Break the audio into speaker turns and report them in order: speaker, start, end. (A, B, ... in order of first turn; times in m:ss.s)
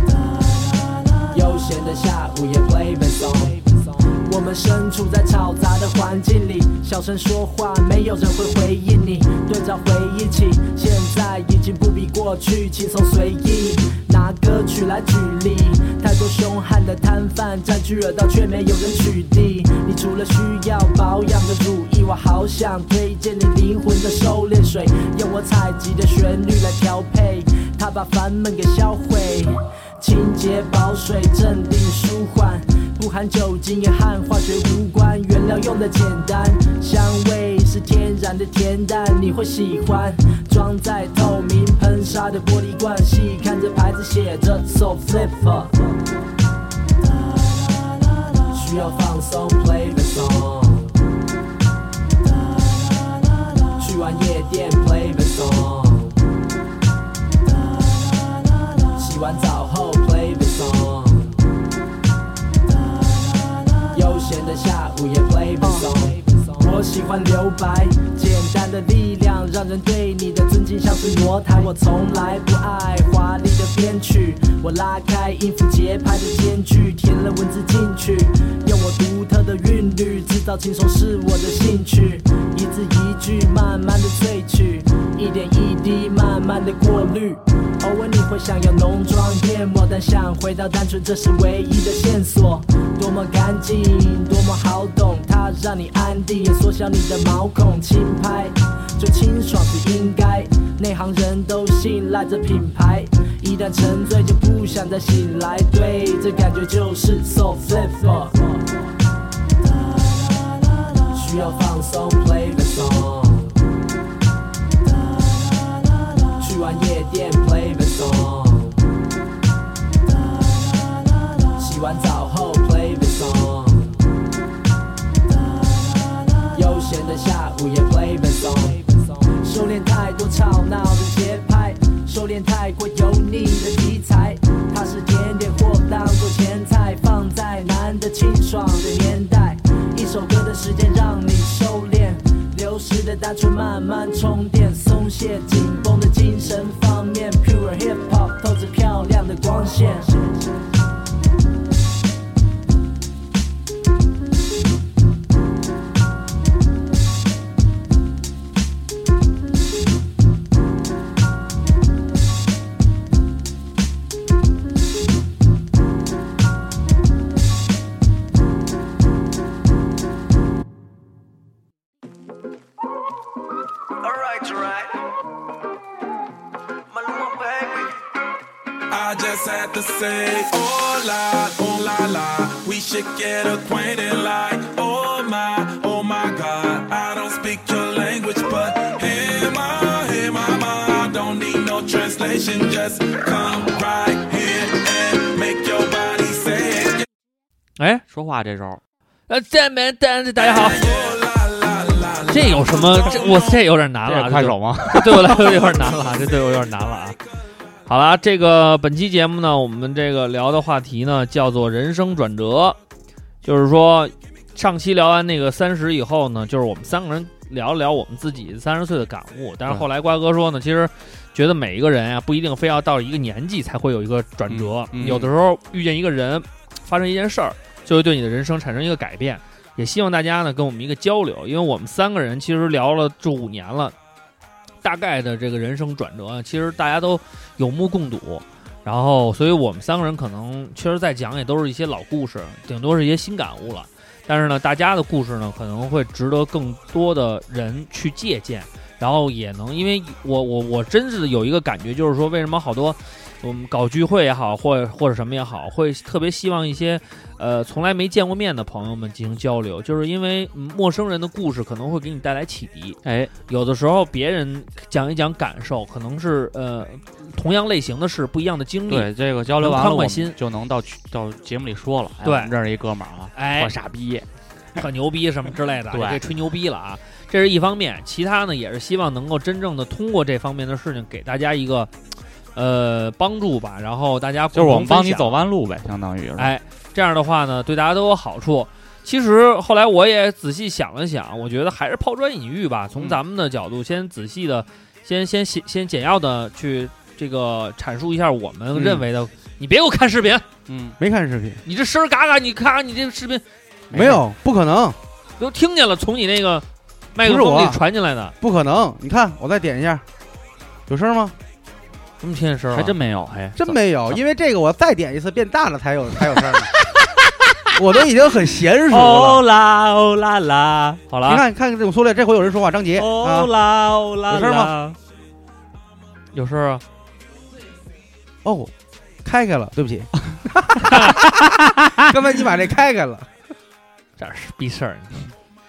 0:01.2-0:46.0 A
0:48.5-0:51.0 A
0:53.8-0:56.3 A
0:58.9-1:01.4 A
1:03.8-1:48.6 A
1:51.1-1:53.6 A
1:56.4-1:58.9 A
2:01.5-2:04.0 A
2:06.4-2:30.4 A
2:54.1-2:55.0 A
2:56.9-2:57.9 A
2:58.9-3:17.1 B
3:17.8-3:18.0 C
3:18.1-3:18.8 D
3:19.3-3:20.8 C
3:20.4-3:23.6 B
3:22.3-3:27.2 C
3:24.1-3:25.5 D
3:27.9-3:32.8 C
3:33.4-3:54.0 C
3:44.5-3:45.3 D
3:54.8-4:29.1 C
4:23.0-4:23.3 D
4:28.9-4:34.3 D
4:29.6-4:30.4 C
4:32.2-4:32.5 C
4:33.3-4:33.8 C
4:34.8-4:41.9 C
4:35.9-4:36.2 D
4:42.6-4:45.4 C
4:44.5-4:46.5 D
4:46.4-5:00.4 C
4:58.7-4:59.0 E
5:00.7-5:01.0 D
5:01.0-5:01.6 E
5:01.6-5:03.4 C
5:03.9-5:04.2 D
5:03.9-5:05.0 E
5:05.4-5:08.3 C
5:07.2-5:07.8 E
5:08.4-5:10.0 E
5:10.9-5:11.4 E
5:12.2-5:13.0 C
5:12.7-5:13.6 D
5:13.6-5:16.7 E
5:17.7-5:19.4 E
5:18.9-5:21.0 D
5:21.1-5:21.4 C
5:21.2-5:23.5 E
5:23.0-5:25.0 D
5:24.3-5:24.8 E
5:26.3-5:26.8 C
5:28.4-5:28.7 E
5:29.2-5:33.3 E
5:31.1-5:32.1 D
5:34.2-5:35.3 C